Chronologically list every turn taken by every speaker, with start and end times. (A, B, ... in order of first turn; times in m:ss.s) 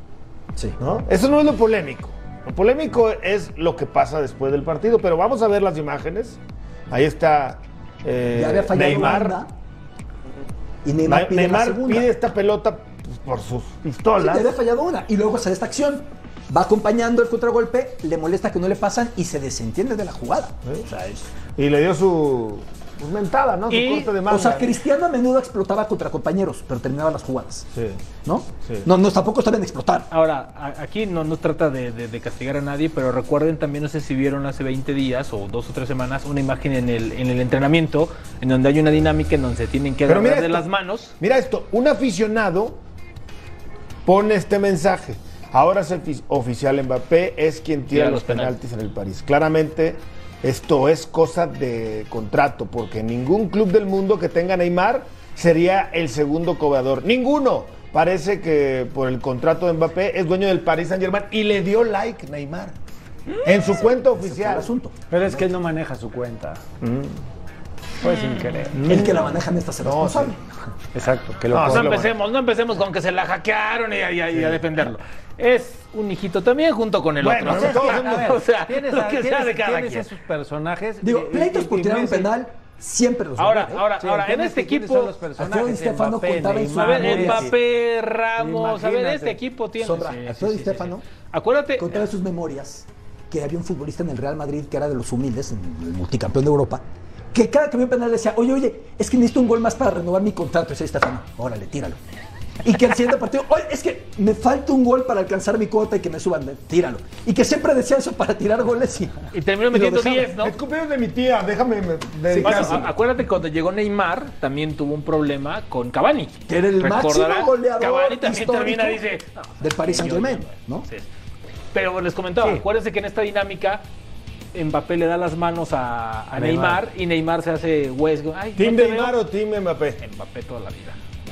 0:00.8-0:06.4 A
0:06.9-0:09.4 A
0:08.3-0:09.5 B
0:10.8-0:12.1 B
0:11.0-0:14.5 A
0:14.2-0:21.1 B
0:21.6-0:24.8 A
0:23.7-0:24.1 C
0:24.2-0:27.7 B
0:27.7-0:28.0 A
0:28.2-0:30.1 B
0:30.1-0:41.1 C
0:40.0-0:40.7 A
0:41.2-0:42.8 A
0:44.0-1:02.7 A
0:47.9-0:48.5 C
1:03.4-1:04.7 A
1:03.5-1:05.4 B
1:05.1-1:06.6 D
1:06.8-1:07.2 A
1:08.0-1:09.0 D
1:08.8-1:10.5 B
1:08.8-1:09.3 A
1:09.8-1:10.4 A
1:10.9-1:12.0 D
1:11.5-1:12.1 A
1:11.6-1:20.1 C
1:17.2-1:18.4 A
1:17.4-1:22.3 D
1:21.0-1:23.8 B
1:23.4-1:25.1 C
1:24.0-1:27.6 D
1:25.4-1:27.5 B
1:26.7-1:32.0 C
1:28.4-1:29.4 D
1:29.8-1:31.0 B
1:31.8-1:42.0 B
1:42.6-1:50.3 B
1:49.3-1:50.5 C
1:50.4-1:52.9 A
1:52.3-1:52.9 B
1:52.4-2:01.1 C
1:56.5-1:59.0 B
1:59.6-2:00.9 B
2:01.7-2:03.8 C
2:04.5-2:09.2 C
2:06.3-2:06.8 D
2:08.6-2:10.0 A
2:10.0-2:11.0 C